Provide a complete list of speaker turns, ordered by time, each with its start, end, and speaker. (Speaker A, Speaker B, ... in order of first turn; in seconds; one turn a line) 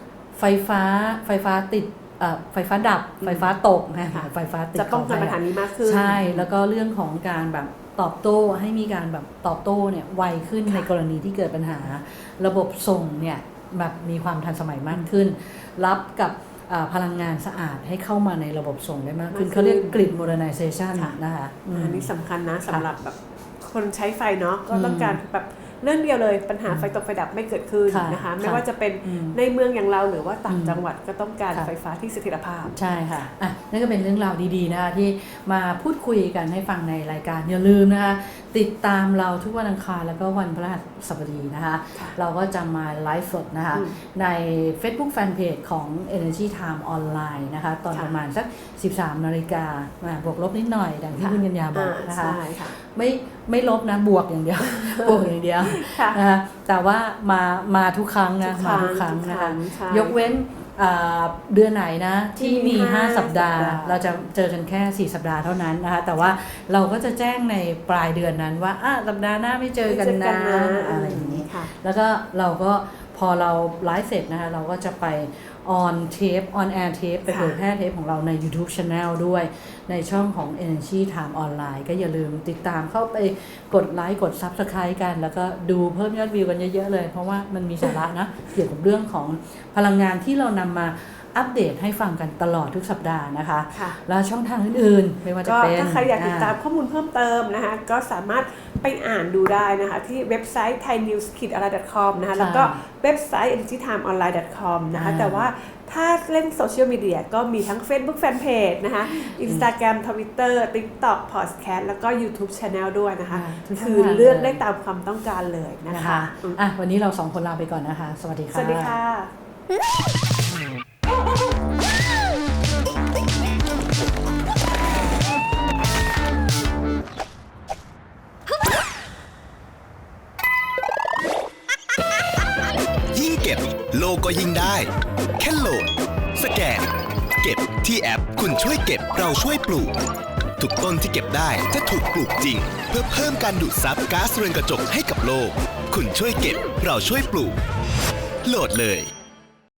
Speaker A: 0.3-22.1
Speaker B: 3.2-3.5
Speaker B: 4.1-6.5
Speaker B: 19.3-20.3
Speaker B: 21.7-32.7
Speaker A: 24.7-25.2
Speaker A: 27.9-29.4
Speaker A: 30.5-30.8
Speaker A: 32.7-96.5
Speaker B: 43.7-44.0
Speaker B: 51.1-52.8
Speaker B: 54.6-56.2
Speaker B: 58.4-60.2
Speaker B: 62.4-64.0
Speaker B: 69.8-71.7
Speaker B: 77.3-77.5
Speaker B: 93.7-94.0
Speaker B: 95.4-116.6
Speaker A: 102.3-102.8
Speaker A: 104.9-105.5
Speaker A: 109.1-109.7
Speaker A: 113.3-114.6
Speaker A: 115.9-118.9
Speaker B: 118.5-119.3
Speaker C: 133.1-139.9
Speaker C: 140.6-147.6
Speaker C: 148.4-149.1